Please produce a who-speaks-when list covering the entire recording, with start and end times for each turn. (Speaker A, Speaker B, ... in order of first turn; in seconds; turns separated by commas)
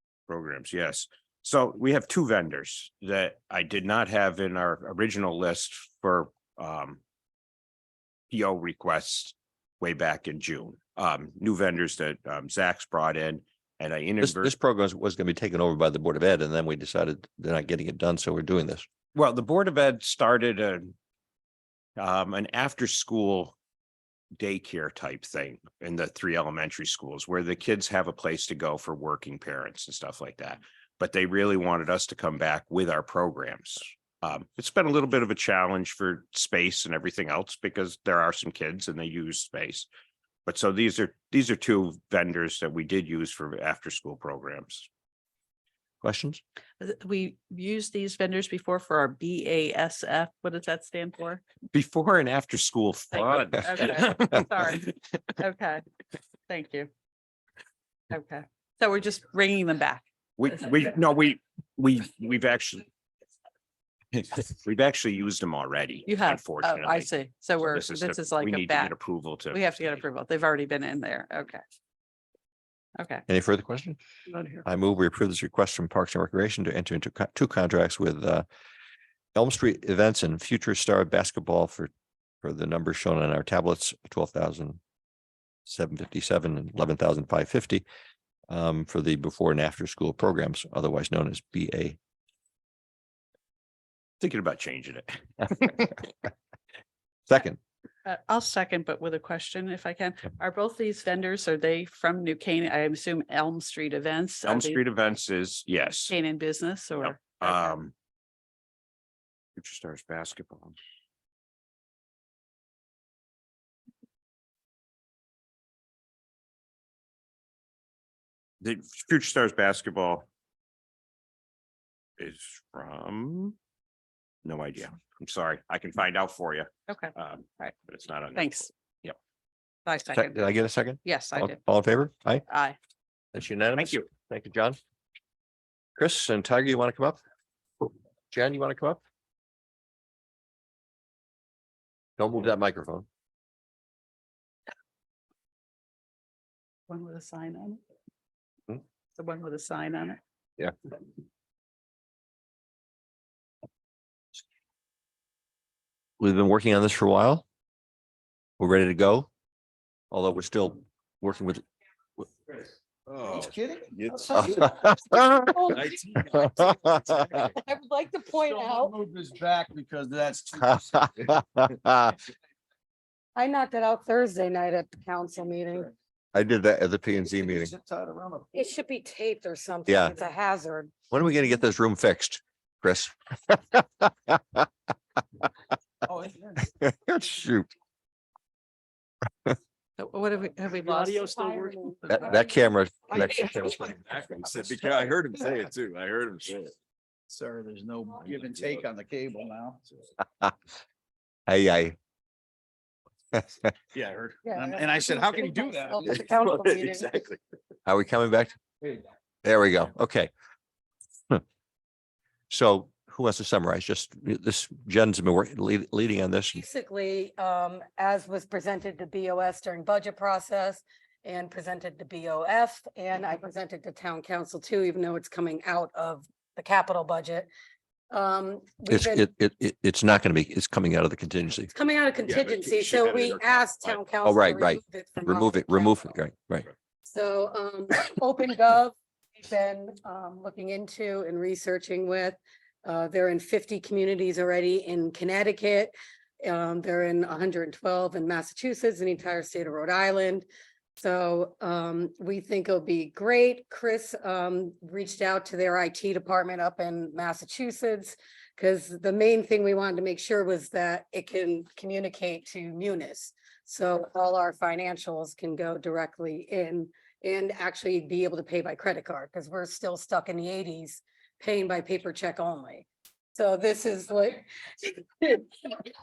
Speaker A: 0.3-7.0, Speaker A: 8.3-14.5, Speaker B: 14.2-18.9, Speaker A: 19.1-20.9, Speaker A: 22.0-23.5, Speaker A: 24.4-39.9, Speaker A: 40.5-44.9, Speaker B: 46.0-46.4, Speaker C: 46.8-51.4, Speaker A: 51.7-55.0, Speaker C: 53.6-54.9, Speaker C: 55.4-55.8, Speaker C: 56.5-56.9, Speaker C: 58.1-60.0, Speaker A: 60.4-62.8, Speaker A: 64.1-67.1, Speaker C: 66.1-68.9, Speaker A: 67.7-69.6, Speaker C: 69.5-71.6, Speaker C: 73.0-73.2, Speaker B: 73.3-74.0, Speaker C: 74.3-74.6, Speaker B: 74.6-78.5, Speaker B: 79.3-81.9, Speaker B: 82.4-84.8, Speaker B: 85.7-87.8, Speaker B: 88.5-92.0, Speaker A: 94.2-96.0, Speaker B: 97.3-97.6, Speaker C: 98.0-104.8, Speaker A: 104.4-106.1, Speaker C: 106.1-107.3, Speaker A: 107.0-107.9, Speaker A: 109.6-110.7, Speaker A: 118.6-120.2, Speaker A: 122.2-123.5, Speaker A: 124.4-129.2, Speaker C: 126.9-127.7, Speaker C: 128.3-128.7, Speaker C: 129.8-130.5, Speaker B: 130.1-132.4, Speaker C: 131.0-131.6, Speaker C: 132.5-132.8, Speaker B: 133.3-134.8, Speaker B: 135.9-137.2, Speaker B: 138.3-139.0, Speaker B: 142.2-143.1, Speaker C: 146.9-147.8, Speaker C: 149.2-150.2, Speaker B: 156.2-157.4, Speaker B: 158.6-159.3, Speaker B: 160.1-161.6, Speaker D: 163.1-163.4, Speaker E: 163.2-164.8, Speaker B: 164.4-165.5, Speaker F: 165.3-165.9, Speaker B: 166.3-166.9, Speaker E: 166.5-167.2, Speaker F: 167.5-168.9, Speaker E: 168.5-170.9, Speaker B: 170.6-172.1, Speaker F: 173.3-175.9, Speaker B: 176.3-177.7, Speaker E: 177.3-178.5, Speaker F: 178.5-180.9, Speaker B: 179.9-180.1, Speaker B: 181.1-184.7, Speaker E: 186.1-186.6, Speaker B: 186.7-187.7, Speaker C: 190.0-191.3, Speaker B: 192.1-193.9, Speaker E: 193.6-194.4, Speaker D: 193.9-196.7, Speaker E: 197.3-199.8, Speaker D: 198.2-198.8, Speaker B: 201.5-201.9, Speaker E: 203.9-206.0, Speaker F: 204.4-207.2, Speaker B: 207.8-208.5, Speaker B: 209.4-210.3, Speaker B: 212.5-216.6, Speaker F: 216.5-227.5, Speaker F: 228.1-229.3, Speaker B: 228.9-231.7, Speaker F: 231.7-236.2, Speaker D: 232.3-234.0, Speaker B: 234.2-236.7, Speaker F: 237.0-250.5, Speaker F: 251.0-275.9